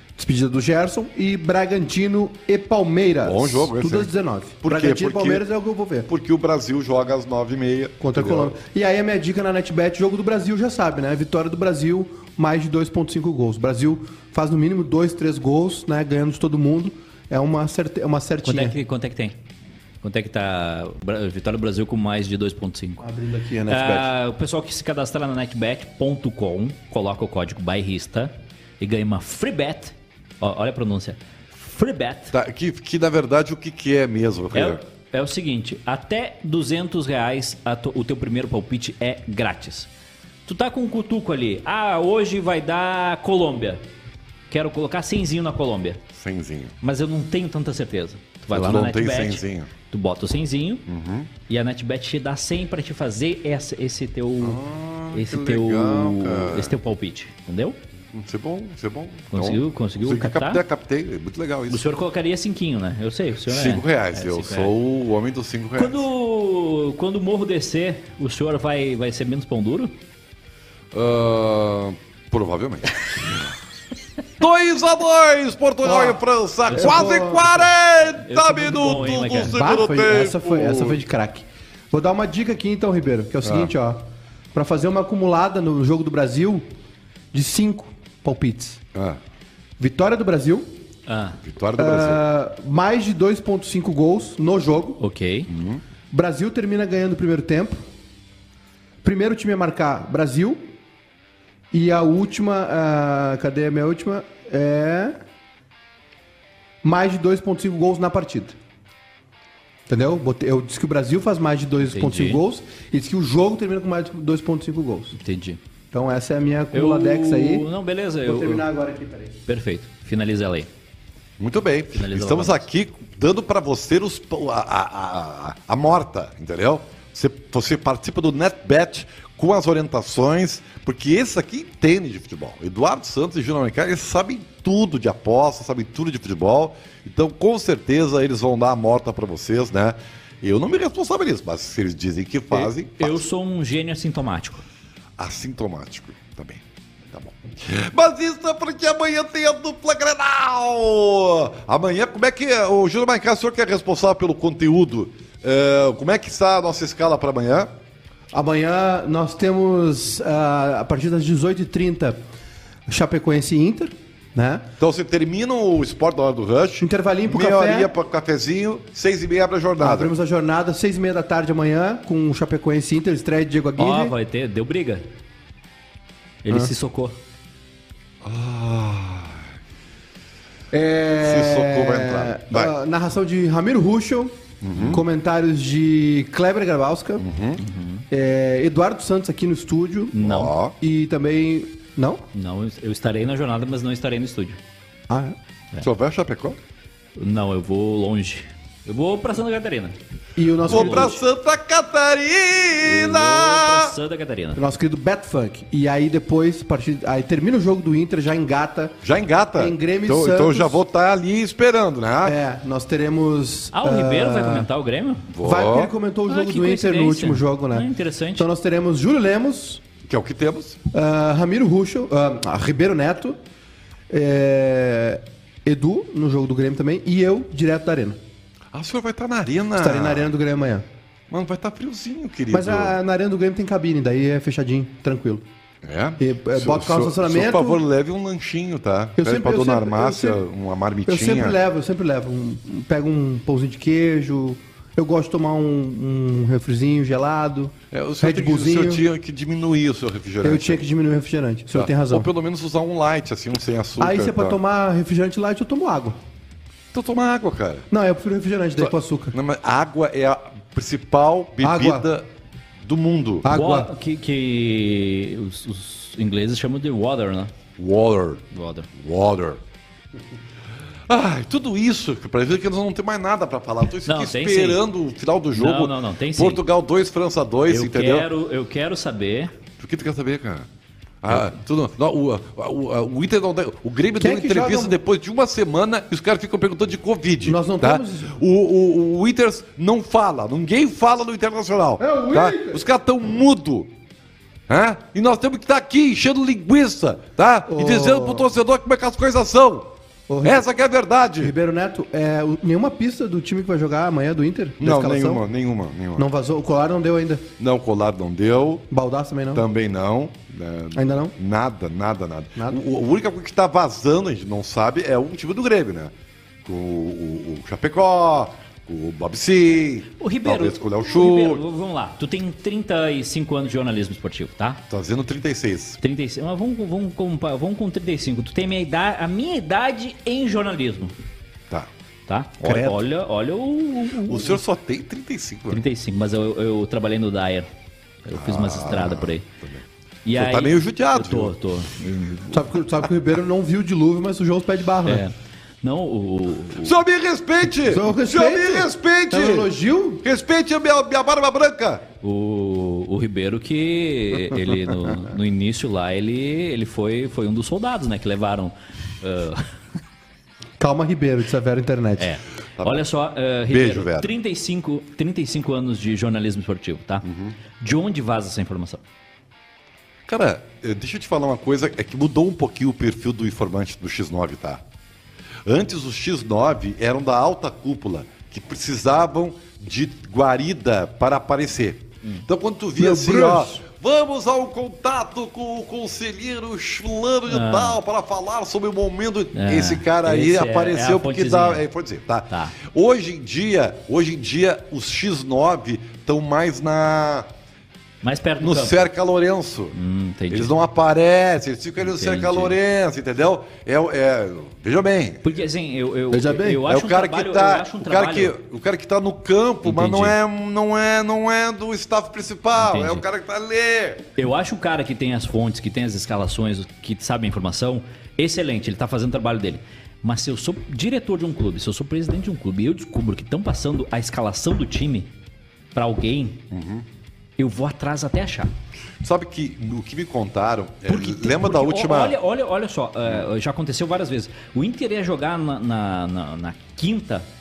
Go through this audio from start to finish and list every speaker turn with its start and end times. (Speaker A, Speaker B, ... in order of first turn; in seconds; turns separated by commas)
Speaker A: 0.2-6.1, Speaker B: 3.2-5.5, Speaker B: 6.1-8.5, Speaker A: 8.0-18.8, Speaker C: 18.4-19.4, Speaker C: 20.0-23.0, Speaker A: 23.0-24.1, Speaker C: 23.7-32.3, Speaker B: 32.3-34.8, Speaker C: 34.5-39.9, Speaker C: 40.5-43.8, Speaker C: 44.5-46.0, Speaker B: 46.1-46.7, Speaker C: 46.8-50.9, Speaker B: 48.5-49.7, Speaker B: 50.9-51.3, Speaker C: 51.5-54.6, Speaker B: 54.4-56.8, Speaker C: 55.1-57.8, Speaker B: 58.1-61.9, Speaker C: 59.3-60.6, Speaker C: 61.7-64.7, Speaker B: 63.5-66.1, Speaker C: 65.8-69.9, Speaker B: 70.9-73.5, Speaker B: 74.4-81.0, Speaker A: 75.8-77.5, Speaker C: 76.7-77.5, Speaker C: 78.2-79.5, Speaker A: 79.5-86.6, Speaker B: 83.4-83.7, Speaker A: 87.3-88.8, Speaker B: 88.9-89.2, Speaker A: 89.8-90.7, Speaker C: 91.1-91.4, Speaker B: 91.4-92.2, Speaker A: 91.8-95.0, Speaker C: 95.0-95.5, Speaker B: 95.5-95.8, Speaker A: 96.1-97.8, Speaker A: 99.0-100.7, Speaker A: 101.7-105.2, Speaker A: 106.8-108.6, Speaker A: 109.9-115.2, Speaker C: 111.8-112.4, Speaker C: 115.2-115.6, Speaker A: 115.9-117.7, Speaker C: 116.7-118.6, Speaker A: 118.2-119.3, Speaker C: 119.5-120.7, Speaker B: 121.4-143.2, Speaker C: 121.9-122.7, Speaker C: 142.5-144.6, Speaker B: 145.2-157.7, Speaker A: 158.3-162.2, Speaker A: 162.9-164.7, Speaker B: 164.8-170.1, Speaker A: 166.8-167.9, Speaker A: 169.8-174.1, Speaker C: 173.8-175.0, Speaker C: 176.4-177.2, Speaker B: 178.2-179.4, Speaker A: 180.7-187.2, Speaker B: 181.2-182.7, Speaker B: 184.6-185.0, Speaker B: 187.2-187.6, Speaker C: 187.6-188.0, Speaker A: 188.1-190.2, Speaker C: 190.1-190.5, Speaker B: 190.2-190.7, Speaker A: 190.8-192.2, Speaker C: 192.3-194.6, Speaker A: 195.1-195.3, Speaker B: 195.8-196.6, Speaker C: 197.2-200.0, Speaker A: 200.3-201.2, Speaker B: 200.7-204.0, Speaker C: 200.7-201.1, Speaker C: 202.8-204.6, Speaker A: 204.6-209.0, Speaker B: 209.0-212.4, Speaker A: 209.6-210.8, Speaker A: 212.2-214.7, Speaker C: 213.7-215.3, Speaker B: 215.3-215.9, Speaker A: 215.4-219.8, Speaker C: 216.3-218.4, Speaker B: 220.0-220.8, Speaker A: 220.9-223.4, Speaker A: 224.1-228.2, Speaker B: 228.7-230.3, Speaker A: 229.8-230.8, Speaker B: 231.3-233.0, Speaker A: 232.5-235.4, Speaker B: 235.8-241.6, Speaker A: 236.2-237.8, Speaker A: 239.2-240.4, Speaker A: 241.1-249.0, Speaker B: 247.9-250.8, Speaker A: 250.4-252.3, Speaker B: 251.7-254.6, Speaker A: 254.0-256.2, Speaker B: 256.9-257.9, Speaker A: 257.9-259.3, Speaker B: 258.8-262.3, Speaker A: 261.6-262.1, Speaker B: 262.8-263.5, Speaker A: 263.4-263.9, Speaker C: 263.5-267.5, Speaker B: 267.8-269.6, Speaker C: 268.5-268.9, Speaker B: 271.1-278.3, Speaker C: 274.1-274.8, Speaker C: 275.5-276.6, Speaker C: 277.7-279.5, Speaker B: 279.8-280.7, Speaker B: 281.2-293.9, Speaker A: 284.2-285.0, Speaker A: 287.4-288.3, Speaker A: 292.0-292.8, Speaker B: 294.7-299.9, Speaker A: 297.7-298.4, Speaker A: 300.3-300.6, Speaker B: 300.4-301.5, Speaker A: 301.4-305.4, Speaker B: 304.8-306.3, Speaker A: 306.1-307.4, Speaker B: 307.6-308.9, Speaker A: 308.9-309.6, Speaker B: 309.5-316.1, Speaker A: 310.9-311.3, Speaker B: 316.6-321.6, Speaker C: 320.2-324.8, Speaker B: 324.9-326.0, Speaker C: 326.0-331.1, Speaker C: 332.3-334.6, Speaker A: 332.6-333.0, Speaker B: 334.2-335.9, Speaker C: 335.7-337.7, Speaker C: 338.2-339.5, Speaker B: 338.3-341.5, Speaker C: 340.2-342.6, Speaker A: 342.5-345.2, Speaker C: 345.0-346.9, Speaker B: 346.8-349.7, Speaker A: 347.8-350.2, Speaker B: 350.2-352.0, Speaker C: 352.2-359.6, Speaker A: 360.8-362.3, Speaker C: 362.2-367.2, Speaker B: 362.8-363.0, Speaker B: 363.7-364.3, Speaker B: 367.2-367.6, Speaker C: 367.8-369.0, Speaker B: 370.3-374.8, Speaker B: 375.6-397.5, Speaker A: 383.0-383.8, Speaker C: 387.5-388.0, Speaker C: 389.5-391.8, Speaker C: 392.5-392.8, Speaker C: 398.2-399.0, Speaker B: 398.6-399.9, Speaker C: 399.9-400.7, Speaker B: 400.5-405.5, Speaker C: 402.1-402.8, Speaker C: 405.4-408.5, Speaker A: 406.3-406.8, Speaker B: 406.8-414.2, Speaker C: 409.8-410.3, Speaker C: 412.8-413.2, Speaker C: 414.4-425.3, Speaker C: 425.9-426.6, Speaker B: 426.7-427.0, Speaker C: 427.6-428.7, Speaker B: 429.2-432.4, Speaker C: 431.1-437.5